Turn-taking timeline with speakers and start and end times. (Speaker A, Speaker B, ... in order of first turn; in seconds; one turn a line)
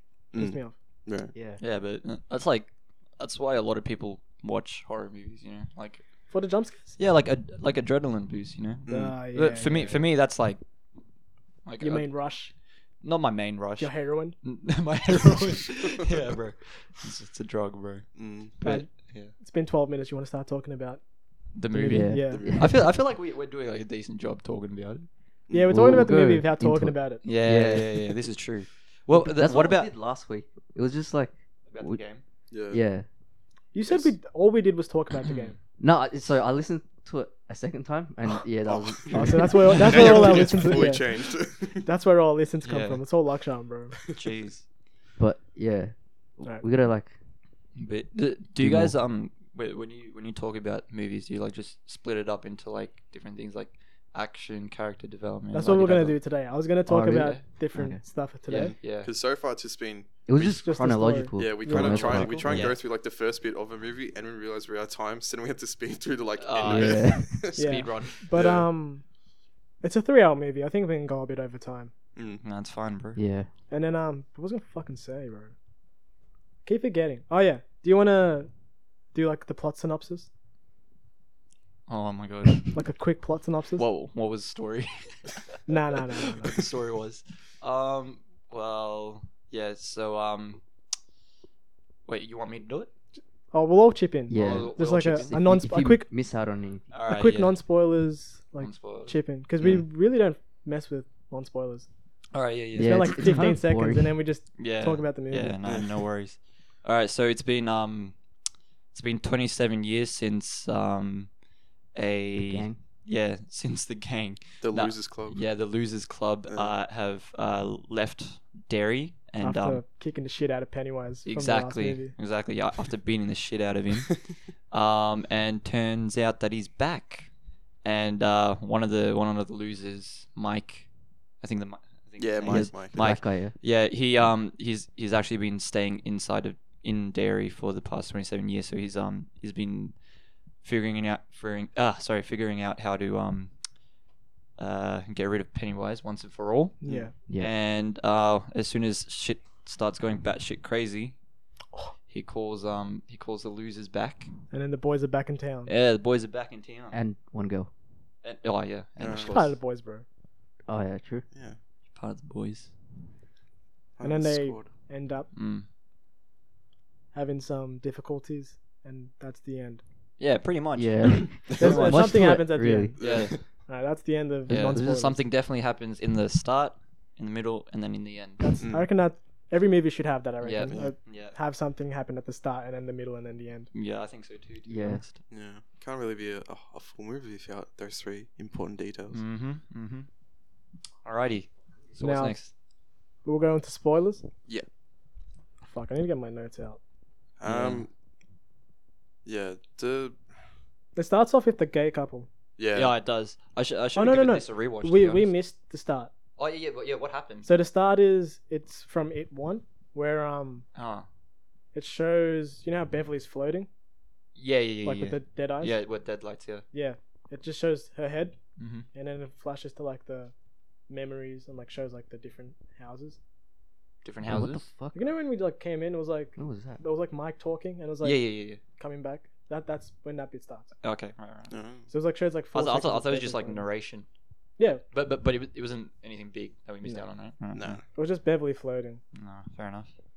Speaker A: 0.3-0.7
Speaker B: 0.3-1.3
Speaker C: 1.3-1.6
Speaker D: 1.6-6.0
Speaker A: 6.3-7.0
Speaker D: 7.0-10.6
Speaker B: 8.9-9.2
Speaker A: 8.9-10.0
Speaker D: 11.6-12.1
Speaker A: 11.8-12.5
Speaker D: 13.0-19.3
Speaker A: 13.8-14.4
Speaker B: 18.1-18.5
Speaker A: 18.6-21.0
Speaker D: 21.5-25.1
Speaker A: 21.7-22.5
Speaker C: 21.8-22.8
Speaker B: 22.3-22.7
Speaker B: 25.5-25.9
Speaker A: 25.5-27.2
Speaker C: 25.7-28.1
Speaker D: 27.2-29.9
Speaker C: 29.1-32.0
Speaker D: 31.7-32.2
Speaker B: 32.5-32.8
Speaker C: 32.7-33.0
Speaker A: 33.7-35.5
Speaker B: 33.9-34.1
Speaker D: 35.2-35.5
Speaker C: 35.8-40.1
Speaker B: 38.6-41.9
Speaker A: 39.1-41.1
Speaker D: 39.7-40.2
Speaker A: 41.8-44.0
Speaker D: 42.6-43.0
Speaker D: 44.1-44.6
Speaker C: 45.2-47.1
Speaker D: 47.8-56.2
Speaker C: 48.6-49.0
Speaker A: 55.5-58.7
Speaker C: 56.9-58.0
Speaker D: 57.1-57.4
Speaker D: 58.5-59.1
Speaker B: 58.6-60.6
Speaker C: 60.3-62.7
Speaker A: 60.4-61.8
Speaker B: 61.4-67.6
Speaker D: 61.7-62.8
Speaker D: 66.4-68.2
Speaker C: 66.6-67.5
Speaker A: 67.5-69.0
Speaker B: 68.2-68.7
Speaker A: 69.8-71.9
Speaker B: 72.2-72.4
Speaker D: 72.4-73.2
Speaker C: 73.2-73.5
Speaker A: 73.7-75.5
Speaker A: 76.6-78.5
Speaker A: 79.1-80.3
Speaker D: 81.9-82.8
Speaker A: 82.7-83.8
Speaker D: 83.8-90.6
Speaker A: 85.7-86.5
Speaker D: 92.1-92.9
Speaker A: 93.5-96.0
Speaker C: 94.3-96.9
Speaker D: 94.3-95.4
Speaker D: 96.9-97.6
Speaker A: 97.1-101.9
Speaker D: 98.6-99.2
Speaker D: 102.3-103.5
Speaker C: 102.8-104.2
Speaker A: 102.8-105.6
Speaker D: 104.6-108.2
Speaker B: 105.6-106.0
Speaker D: 108.9-111.3
Speaker D: 111.9-119.8
Speaker C: 112.4-112.8
Speaker B: 114.6-115.4
Speaker A: 119.4-122.1
Speaker D: 121.2-127.3
Speaker D: 127.8-130.9
Speaker D: 131.4-139.9
Speaker B: 132.2-133.0
Speaker C: 132.4-133.5
Speaker D: 140.6-143.5
Speaker D: 144.6-151.2
Speaker A: 146.8-147.1
Speaker C: 147.3-147.5
Speaker D: 152.1-154.3
Speaker A: 154.5-155.7
Speaker D: 155.7-157.0
Speaker C: 156.9-157.7
Speaker D: 158.2-159.5
Speaker B: 159.0-159.5
Speaker A: 159.2-160.0
Speaker C: 160.7-161.2
Speaker D: 161.9-162.7
Speaker B: 164.0-164.7
Speaker A: 164.0-165.3
Speaker D: 165.3-165.7
Speaker A: 167.1-169.8
Speaker D: 170.2-172.2
Speaker C: 170.8-173.3
Speaker A: 171.6-175.2
Speaker B: 173.0-173.4
Speaker D: 173.0-173.4
Speaker D: 174.5-178.6
Speaker C: 174.5-175.1
Speaker A: 178.4-183.7
Speaker B: 178.6-178.9
Speaker D: 180.4-181.4
Speaker B: 180.7-180.9
Speaker D: 183.7-185.2
Speaker C: 184.7-185.0
Speaker B: 185.3-189.2
Speaker D: 189.1-190.1
Speaker D: 191.0-192.5
Speaker A: 192.0-192.4
Speaker A: 193.2-194.2
Speaker A: 195.6-196.8
Speaker B: 197.4-197.9
Speaker D: 197.4-197.8
Speaker B: 199.2-200.2
Speaker A: 200.9-202.3
Speaker B: 202.6-202.9
Speaker D: 202.7-205.3
Speaker A: 203.9-206.1
Speaker D: 206.4-207.5
Speaker A: 207.4-210.6
Speaker D: 210.8-211.1
Speaker A: 211.7-213.7
Speaker D: 214.3-216.6
Speaker A: 214.8-215.8
Speaker A: 216.7-218.4
Speaker D: 218.6-218.9
Speaker A: 218.9-220.3
Speaker A: 220.9-223.2
Speaker D: 224.0-224.6
Speaker C: 224.2-225.1
Speaker A: 224.9-230.7
Speaker C: 226.4-226.8
Speaker D: 228.0-228.6
Speaker D: 230.8-231.5
Speaker B: 231.5-231.9
Speaker A: 231.9-233.6
Speaker D: 232.5-234.1
Speaker A: 234.6-234.8
Speaker D: 234.9-237.8
Speaker B: 237.5-237.8
Speaker A: 237.9-239.0
Speaker D: 239.1-239.9